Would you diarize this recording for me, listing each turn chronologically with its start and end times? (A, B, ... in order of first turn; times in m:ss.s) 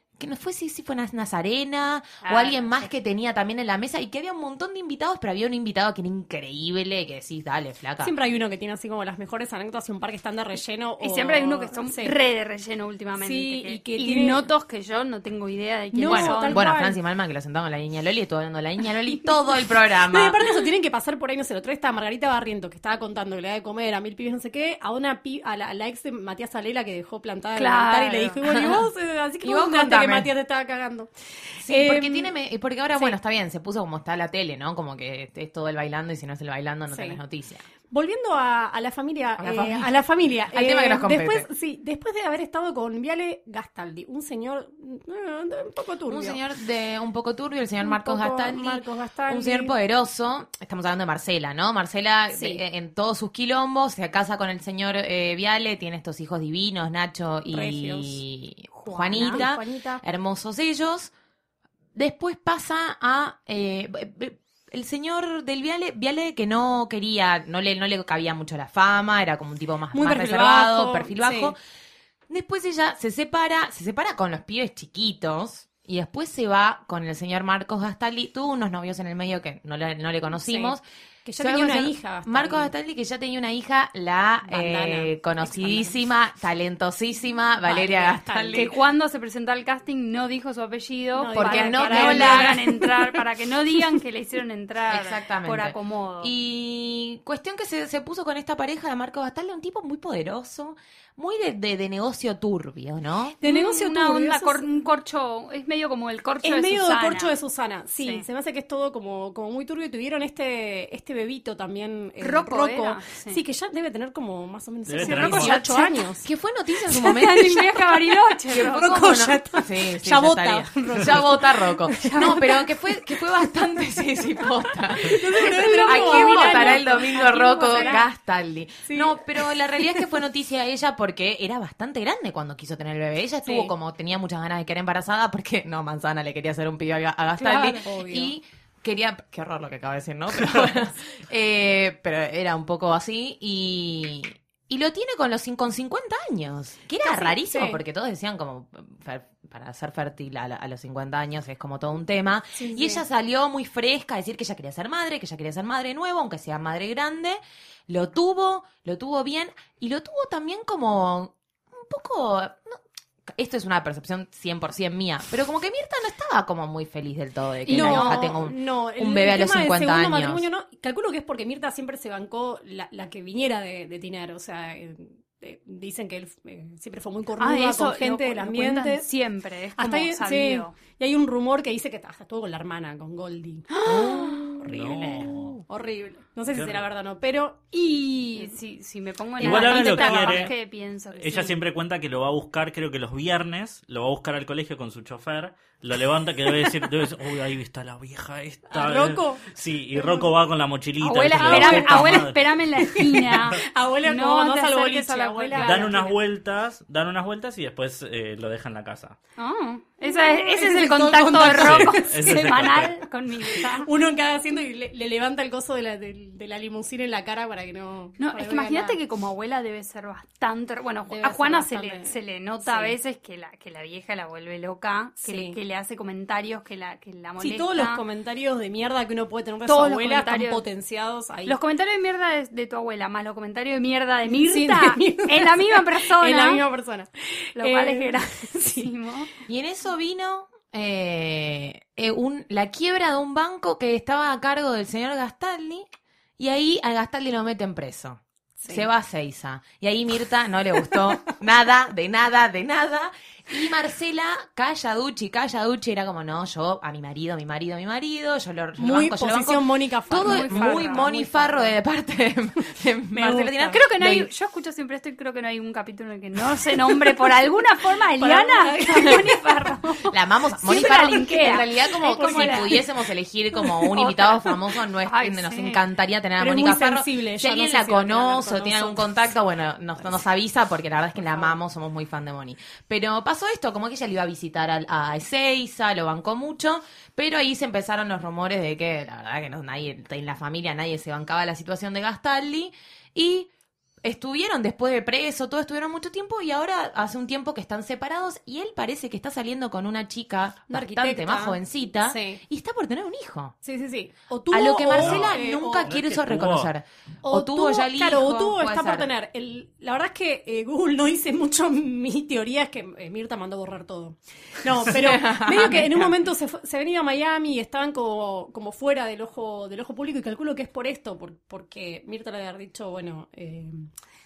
0:00.2-0:08.1 A
0:02.2-0:02.8 B
0:08.0-0:12.2 C
0:11.0-0:16.6 B
0:13.2-0:14.5 C
0:15.9-0:17.0 C
0:16.0-0:20.4 A
0:20.1-0:32.3 C
0:27.6-0:28.4 B
0:28.4-0:28.9 A
0:29.4-0:30.3 A
0:31.6-0:37.6 A
0:36.9-0:37.2 C
0:37.9-0:46.4 C
0:39.4-0:39.9 A
0:40.5-0:41.5 A
0:46.1-1:01.1 A
0:47.8-0:49.7 C
0:52.3-0:52.6 C
0:57.5-0:58.2 C
0:58.8-0:59.4 B
0:59.1-1:00.0 C
1:02.0-1:11.6 A
1:09.9-1:11.5 C
1:12.3-1:20.8 A
1:20.4-1:22.7 C
1:21.4-1:28.7 A
1:24.5-1:26.0 C
1:27.6-1:28.7 C
1:28.5-1:36.3 B
1:31.2-1:33.2 C
1:31.4-1:32.6 A
1:34.9-1:43.4 A
1:43.4-1:44.7 C
1:43.4-1:47.3 B
1:46.4-1:56.3 C
1:48.0-1:48.2 B
1:52.2-1:53.4 B
1:54.9-1:55.6 D
1:55.0-1:56.0 B
1:56.2-1:57.8 A
1:56.9-1:57.6 C
1:57.0-1:59.2 B
1:58.5-2:42.8 A
1:58.5-2:02.6 C
2:02.0-2:02.4 B
2:05.0-2:08.0 C
2:05.4-2:08.1 B
2:08.9-2:09.5 C
2:17.4-2:17.8 B
2:17.5-2:18.4 C
2:27.0-2:27.8 C
2:32.6-2:33.0 C
2:43.3-2:50.5 A
2:47.7-2:48.2 B
2:47.7-2:59.1 C
2:57.4-3:00.7 B
2:59.8-3:07.6 C
3:03.7-3:04.7 B
3:04.6-3:05.6 D
3:06.5-3:06.9 D
3:07.7-3:11.6 B
3:09.4-3:10.5 C
3:09.4-3:10.6 D
3:11.2-3:23.0 D
3:18.7-3:20.3 C
3:21.0-3:26.2 B
3:21.4-3:22.2 C
3:22.9-3:26.1 C
3:25.6-3:29.2 D
3:29.4-3:33.9 B
3:30.0-3:32.6 C
3:31.4-3:32.9 D
3:33.8-3:39.0 C
3:38.2-3:48.0 B
3:41.1-3:43.0 C
3:45.2-3:45.6 C
3:47.4-3:51.6 C
3:49.7-3:50.6 B
3:51.4-3:56.6 B
3:54.3-3:58.9 C
3:57.6-3:59.3 B
3:59.5-4:05.8 A
4:06.4-4:24.3 A
4:08.6-4:08.9 C
4:18.8-4:21.8 C
4:20.2-4:21.1 B
4:23.1-4:23.8 C
4:23.7-4:32.8 B
4:28.2-4:30.0 C
4:30.1-4:53.5 A
4:32.1-4:32.8 C
4:33.6-4:34.5 C
4:35.0-4:35.8 B
4:36.4-4:39.1 C
4:41.2-4:41.6 C
4:54.0-5:03.6 A
5:00.7-5:02.4 C
5:03.6-5:05.9 C
5:04.5-5:09.1 A
5:05.0-5:06.7 D
5:07.2-5:23.9 C
5:14.9-5:16.2 A